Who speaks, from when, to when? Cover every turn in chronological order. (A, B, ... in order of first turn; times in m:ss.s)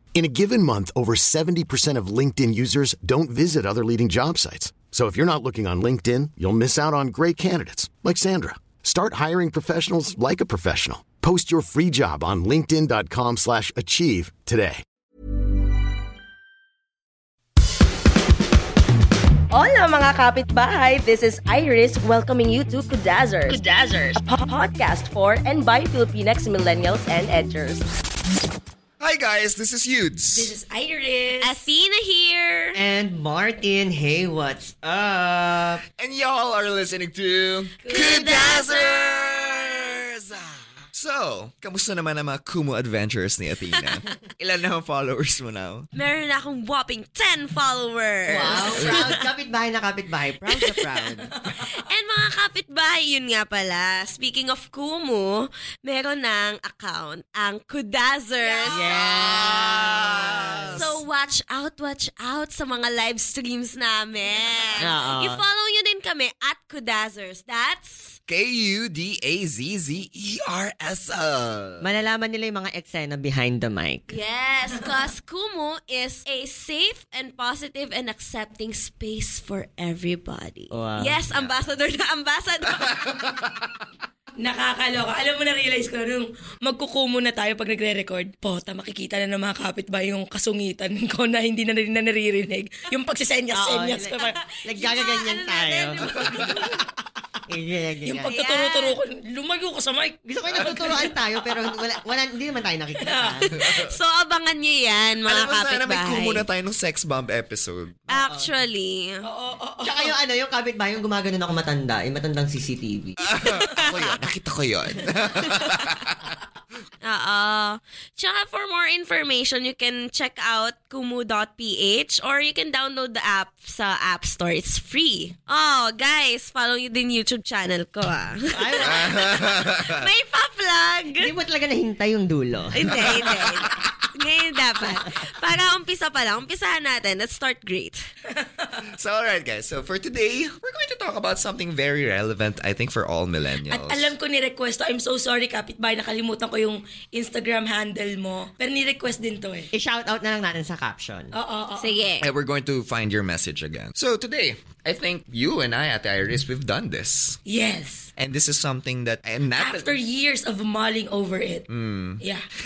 0:00.2-0:14.8 A
0:19.5-0:27.9 B
0:29.0-0:30.5 C
0:30.3-0:31.6 D
0:31.4-0:32.8 E
0:32.7-0:35.8 F
0:36.0-0:45.9 C
0:37.8-0:38.8 D
0:37.9-0:39.1 E
0:46.0-0:49.2 E
0:48.3-0:51.3 F
0:50.6-0:51.0 E
0:51.4-0:51.7 D
0:51.7-0:59.8 E
0:58.4-0:59.0 D
0:58.7-1:00.9 F
0:59.1-1:01.0 C
1:00.7-1:08.2 E
1:04.8-1:05.4 F
1:08.3-1:11.8 C
1:11.8-1:14.2 F
1:14.1-1:23.0 E
1:20.7-1:21.2 F
1:21.3-1:21.8 C
1:22.8-1:23.5 C
1:24.4-1:34.3 D
1:33.5-1:36.7 F
1:34.3-1:36.8 E
1:36.1-1:36.5 C
1:37.5-1:38.3 F
1:38.0-1:41.2 D
1:38.3-1:39.0 E
1:40.2-1:43.6 F
1:40.6-1:41.0 C
1:43.0-1:43.4 D
1:43.6-1:44.0 C
1:43.6-1:46.4 E
1:45.3-1:48.2 C
1:48.1-1:49.2 E
1:49.2-1:50.2 D
1:49.8-1:53.3 F
1:53.2-1:56.4 C
1:53.4-1:54.0 E
1:57.0-2:11.3 E
2:08.5-2:09.4 F
2:08.8-2:10.1 C
2:11.2-2:13.3 F
2:12.8-2:18.0 E
2:12.9-2:14.0 C
2:19.0-2:24.1 C
2:23.7-2:29.7 D
2:29.7-2:31.3 F
2:31.3-2:32.0 D
2:31.8-2:32.3 E
2:32.2-2:37.4 C
2:37.5-2:38.1 D
2:38.2-2:39.9 C
2:39.6-2:41.7 D
2:41.7-2:42.2 C
2:42.2-2:42.4 D